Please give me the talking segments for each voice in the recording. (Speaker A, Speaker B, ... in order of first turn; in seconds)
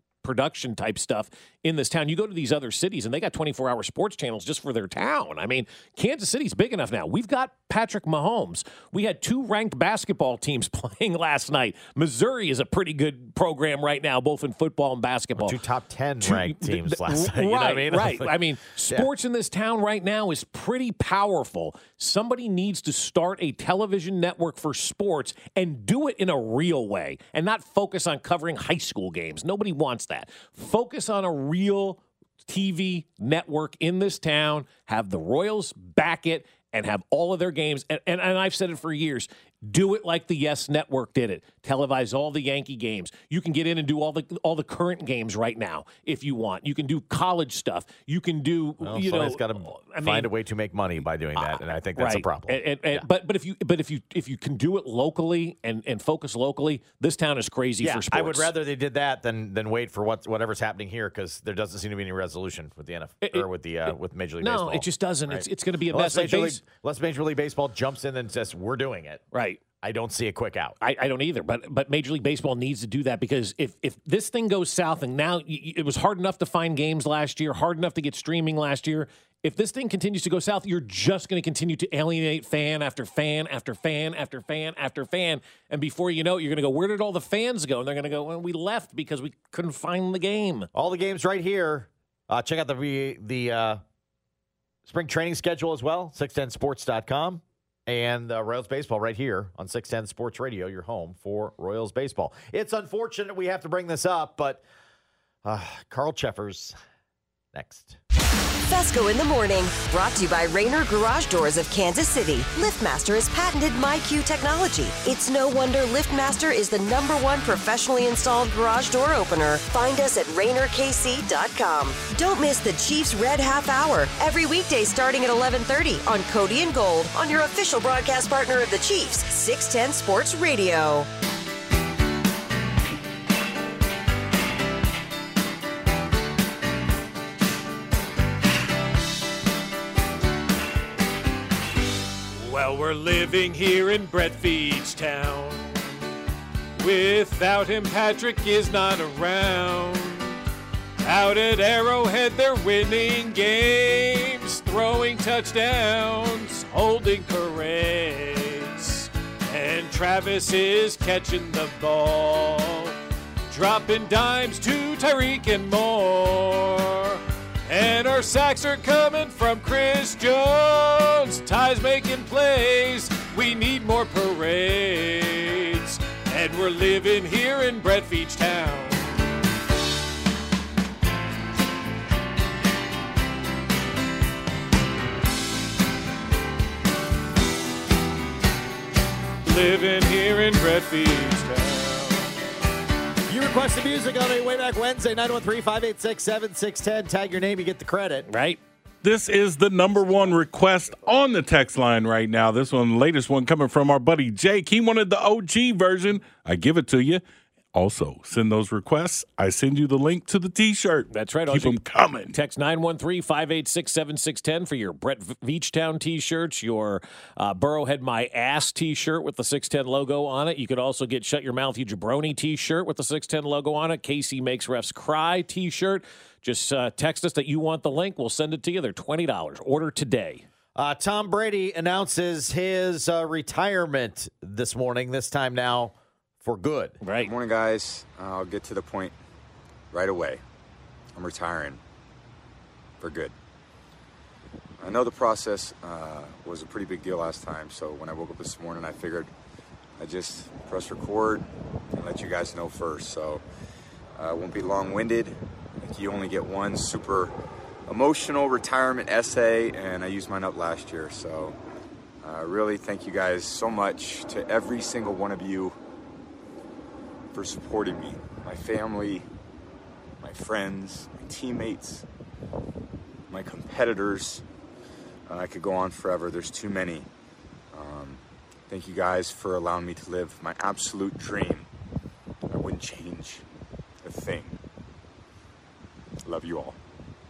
Speaker A: 0.2-15.6, 16.2-50.3, 51.4-58.5, 63.2-66.6, 69.3-69.6, 70.8-90.7, 142.4-146.0, 146.8-150.4, 151.0-163.0, 163.5-179.3, 189.4-192.4, 198.3-198.6, 211.1-230.4, 237.0-237.3
Speaker B: 15.4-18.3, 48.8-53.0, 57.8-69.2, 69.8-70.8, 90.7-93.8, 94.9-104.6, 105.4-106.8, 107.5-108.0, 193.3-198.3, 230.8-237.0
Speaker C: 108.7-131.1
Speaker D: 199.0-212.3
Speaker E: 237.2-239.1, 239.9-240.4, 241.2-241.8, 243.0-243.3, 244.8-249.3, 250.0-253.4, 254.2-257.3, 257.9-261.6, 262.2-265.8, 267.3-269.2, 270.2-272.0, 273.3-274.4, 275.3-277.1, 277.7-281.7, 282.5-283.4, 284.0-284.6, 286.2-286.8